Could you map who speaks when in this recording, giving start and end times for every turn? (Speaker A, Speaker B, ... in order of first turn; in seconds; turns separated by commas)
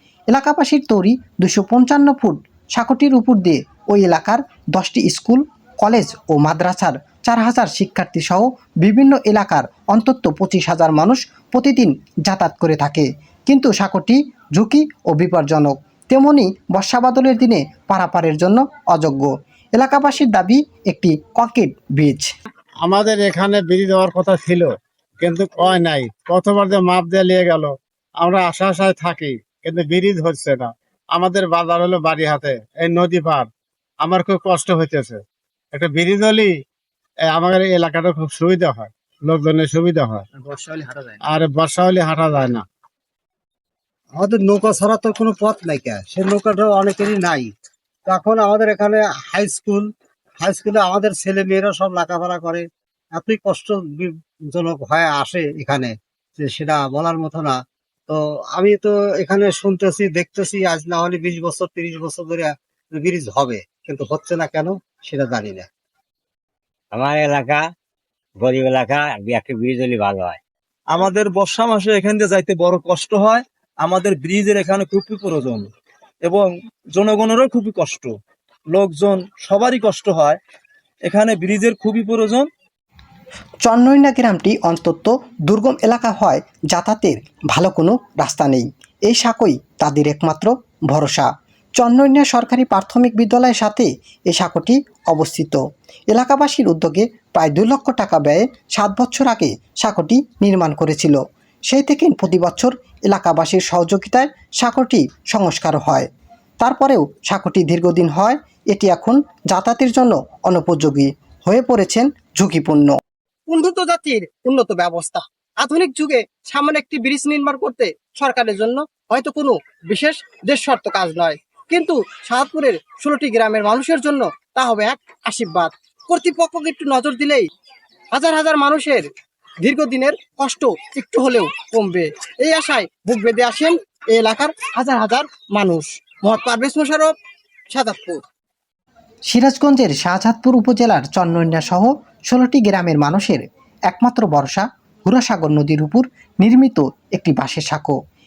Speaker A: 0.3-22.3, Speaker B: 22.8-33.5, Speaker B: 34.0-35.2, Speaker B: 35.7-36.5, Speaker B: 37.3-40.2, Speaker C: 40.4-41.2, Speaker B: 41.3-42.6, Speaker C: 44.2-47.5, Speaker C: 48.1-49.9, Speaker C: 50.4-52.6, Speaker C: 53.2-65.7, Speaker D: 66.9-67.6, Speaker D: 68.4-70.4, Speaker E: 70.9-75.7, Speaker E: 76.2-78.1, Speaker E: 78.7-80.4, Speaker E: 81.0-82.5, Speaker A: 83.6-95.6, Speaker A: 96.1-101.2, Speaker A: 101.7-106.1, Speaker A: 106.6-113.0, Speaker F: 113.5-127.5, Speaker F: 128.1-129.1, Speaker F: 129.6-137.1, Speaker F: 137.7-138.2, Speaker A: 139.3-147.9